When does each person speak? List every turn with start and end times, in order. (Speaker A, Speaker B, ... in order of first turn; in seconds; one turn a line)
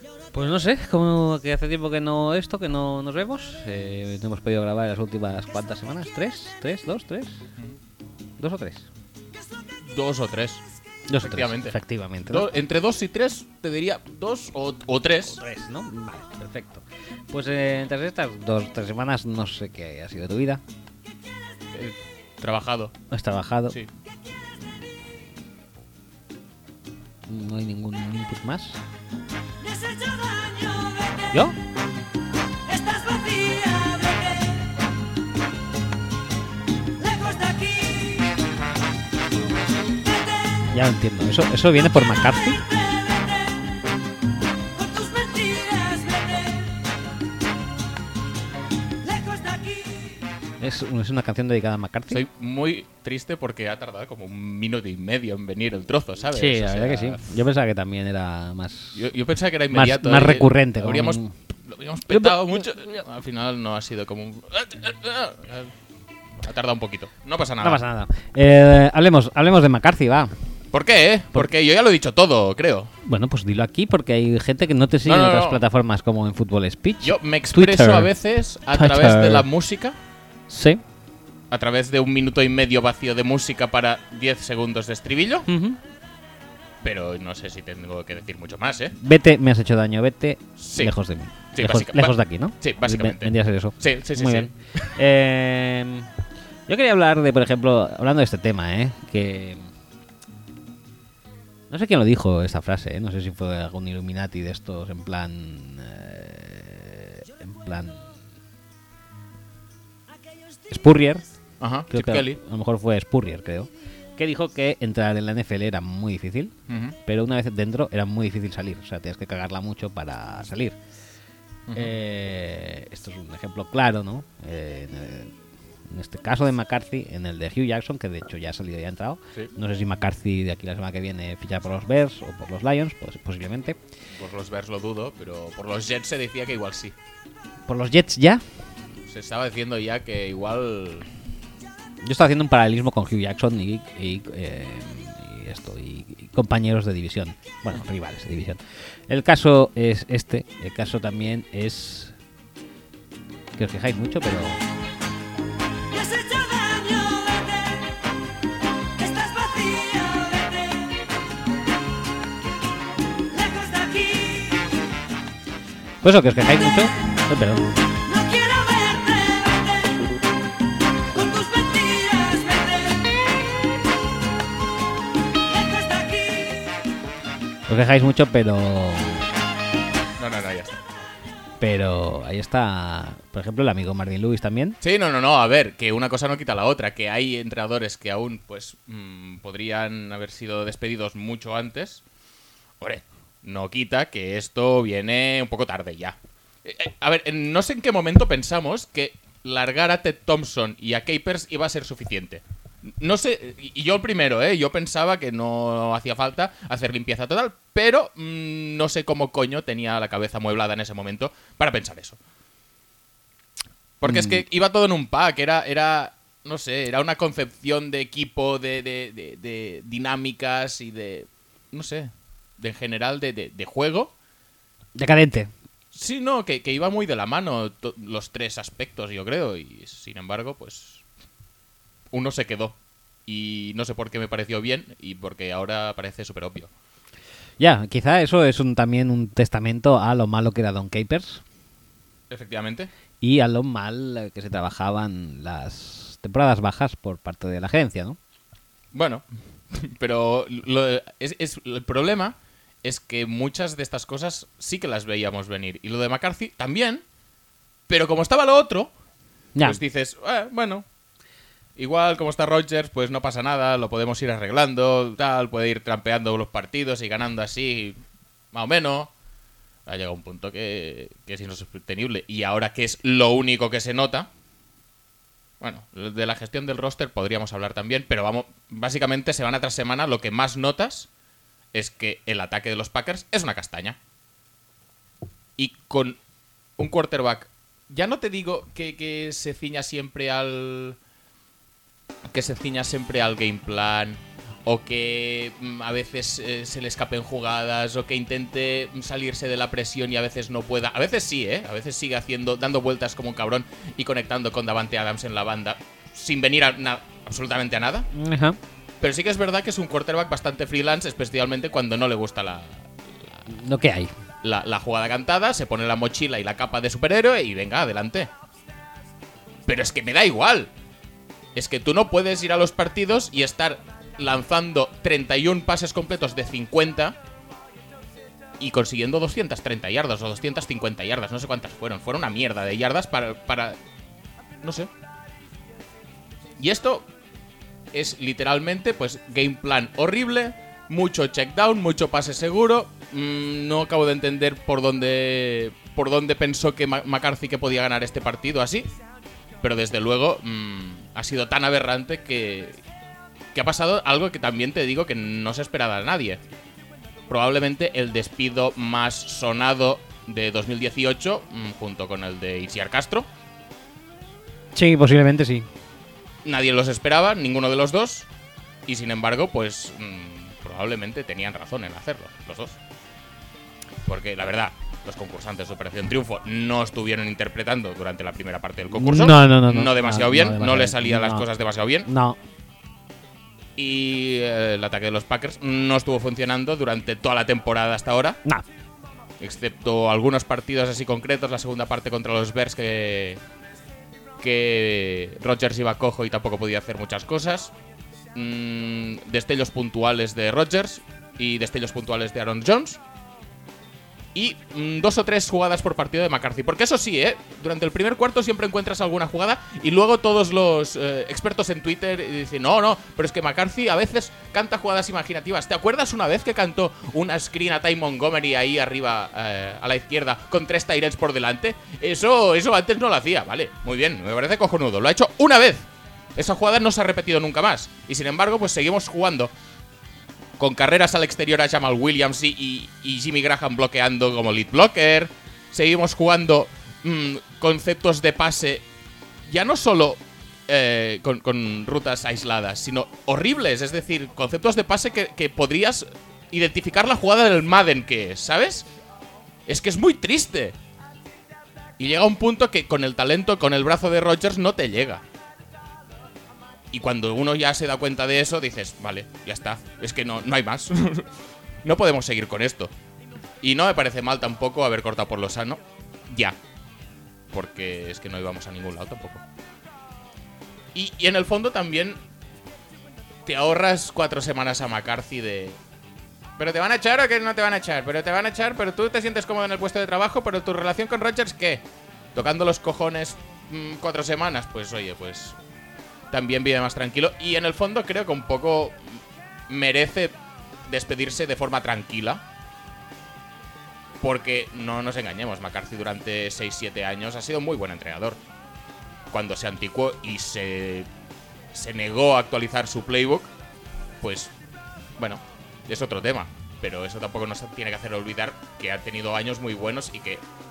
Speaker A: 0.3-7.4
Speaker A: 8.4-8.9
Speaker B: 9.8-10.6
Speaker A: 11.1-12.5
Speaker B: 11.2-11.8
Speaker B: 12.3-15.4
Speaker A: 15.2-20.6
Speaker B: 21.7-22.9
Speaker A: 23.1-23.8
Speaker A: 27.3-28.8
Speaker C: 29.7-30.9
Speaker A: 31.3-31.6
Speaker C: 32.7-34.4
Speaker C: 37.0-38.2
Speaker A: 40.7-42.6
Speaker C: 44.8-46.5
Speaker C: 49.1-49.8
Speaker A: 50.6-52.2
Speaker B: 52.1-57.2
Speaker A: 56.3-59.0
Speaker B: 58.9-65.7
Speaker A: 59.7-61.3
Speaker A: 62.1-62.9
Speaker B: 66.3-67.8
Speaker A: 67.6-70.3
Speaker B: 70.7-72.9
Speaker A: 73.0-78.1
Speaker B: 75.0-75.6
Speaker B: 77.0-80.0
Speaker A: 78.7-79.5
Speaker A: 80.5-80.8
Speaker B: 81.5-85.5
Speaker A: 85.5-85.8
Speaker B: 86.8-88.9
Speaker A: 89.0-96.1
Speaker B: 90.6-90.9
Speaker B: 91.5-94.9
Speaker A: 96.7-99.7
Speaker A: 101.7-108.1
Speaker A: 110.7-111.2
Speaker B: 111.6-112.4
Speaker A: 111.9-116.5
Speaker B: 116.7-117.0
Speaker A: 117.0-120.8
Speaker A: 121.7-125.3
Speaker A: 125.9-133.8
Speaker B: 134.1-136.9
Speaker A: 137.7-138.4
Speaker B: 139.0-141.1
Speaker A: 142.0-152.2
Speaker A: 153.6-154.6
Speaker C: 156.0-157.5
Speaker C: 159.0-160.6
Speaker C: 163.4-164.6
Speaker A: 166.0-167.7
Speaker C: 168.1-169.5
Speaker C: 171.1-172.8
Speaker C: 175.5-176.6
Speaker A: 177.7-179.2
Speaker B: 180.2-180.9
Speaker A: 181.6-184.8
Speaker B: 184.8-192.0
Speaker B: 192.8-212.2
Speaker B: 214.0-224.1
Speaker A: 214.0-214.4
Speaker A: 224.9-225.5
Speaker B: 225.9-231.0
Speaker B: 232.1-236.7
Speaker A: 237.6-241.4
Speaker B: 242.3-242.9
Speaker A: 243.2-248.2
Speaker B: 248.9-257.0
Speaker B: 257.9-258.9
Speaker B: 259.6-260.9
Speaker B: 261.8-268.0
Speaker B: 268.5-269.1
Speaker B: 269.9-274.3
Speaker B: 275.6-281.1
Speaker B: 281.7-284.0
Speaker B: 285.6-286.2
Speaker B: 286.8-291.0
Speaker B: 292.3-308.1
Speaker A: 308.1-308.6
Speaker B: 309.0-312.9
Speaker A: 313.5-314.1
Speaker B: 314.4-318.3
Speaker B: 319.6-320.7
Speaker B: 321.5-327.2
Speaker B: 328.6-333.8
Speaker B: 334.6-334.9
Speaker B: 336.6-337.1
Speaker B: 337.9-348.9
Speaker B: 349.6-352.8
Speaker B: 353.5-356.4
Speaker B: 357.3-363.3
Speaker A: 364.7-365.7
Speaker B: 366.4-368.3
Speaker B: 368.9-372.8
Speaker B: 374.0-382.1
Speaker A: 378.9-381.5
Speaker A: 382.0-382.4
Speaker B: 383.8-388.4
Speaker B: 389.4-393.4
Speaker B: 394.4-397.7
Speaker B: 398.3-403.0
Speaker B: 404.3-429.5
Speaker B: 430.6-438.8
Speaker B: 439.4-448.9
Speaker B: 449.6-450.8
Speaker B: 452.0-455.2
Speaker B: 456.9-461.3
Speaker B: 461.8-462.9
Speaker B: 463.6-466.6
Speaker B: 467.5-469.4
Speaker B: 470.9-472.2
Speaker B: 473.4-475.8
Speaker B: 476.6-485.6
Speaker B: 486.3-490.4
Speaker B: 490.9-492.4
Speaker B: 494.2-498.4
Speaker B: 499.3-501.1
Speaker B: 501.7-503.5
Speaker B: 504.2-504.5
Speaker B: 505.2-510.4